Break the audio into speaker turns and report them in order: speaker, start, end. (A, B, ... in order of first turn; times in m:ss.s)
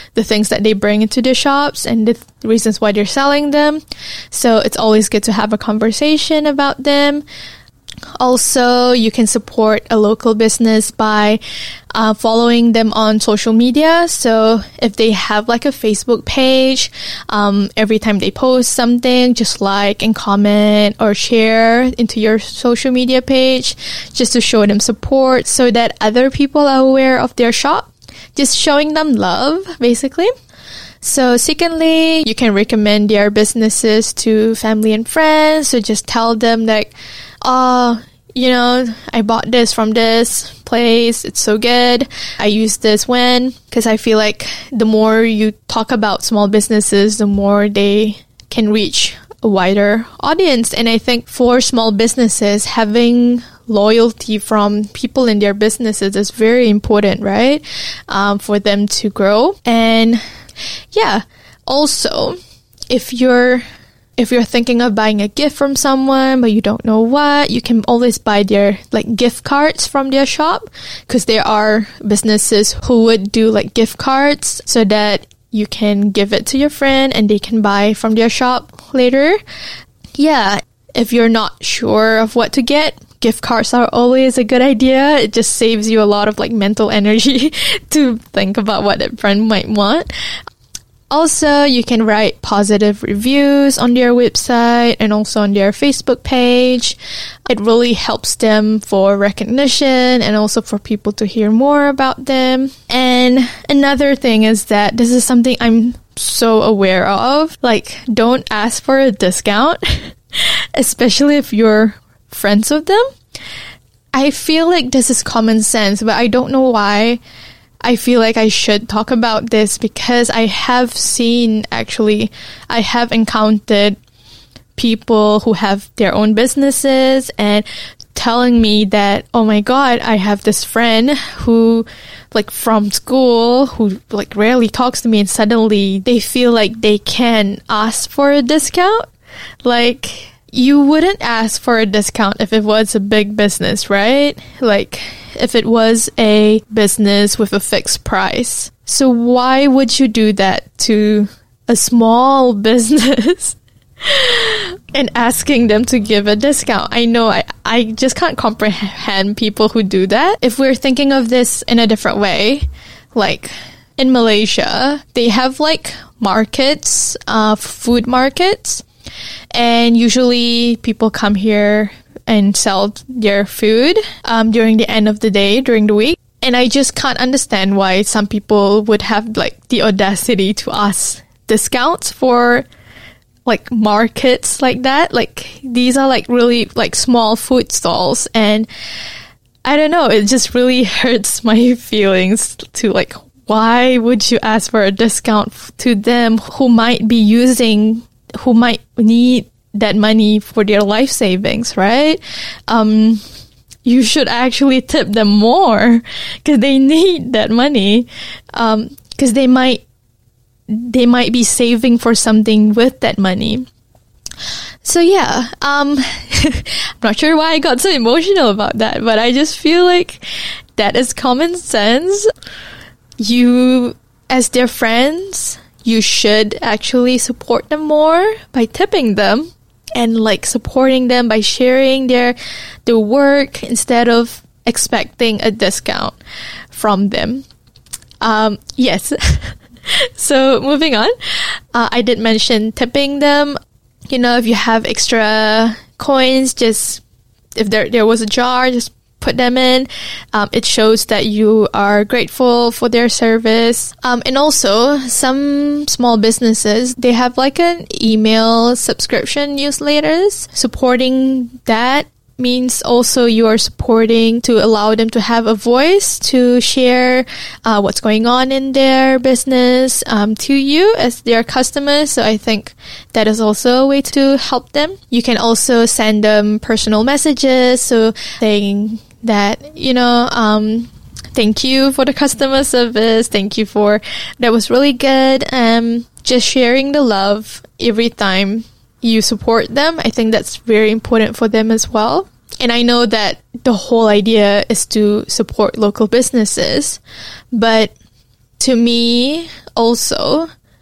0:00.2-0:03.8 A
0:04.3-0:07.2 A
0:08.2-0:11.4 A
0:11.9-0:30.3 A
0:31.0-1:00.2 A
1:00.9-1:02.4 A
1:02.9-1:03.6 A
1:04.2-1:19.4 A
1:20.2-1:30.1 A
1:31.1-1:53.1 A
1:54.1-1:57.2 A
1:57.8-2:04.0 A
2:04.8-2:19.1 A
2:19.6-2:48.8 A
2:49.5-3:02.7 A
3:03.5-3:08.7 A
3:09.6-3:23.2 A
3:23.8-3:29.8 A
3:30.7-3:33.7 A
3:34.8-3:40.2 A
3:40.8-3:42.3 A
3:43.2-3:56.2 A
3:56.7-3:57.5 A
3:58.2-4:03.6 A
4:04.1-4:07.0 A
4:07.6-4:57.0 A
4:57.5-4:57.9 A
4:58.6-5:00.5 A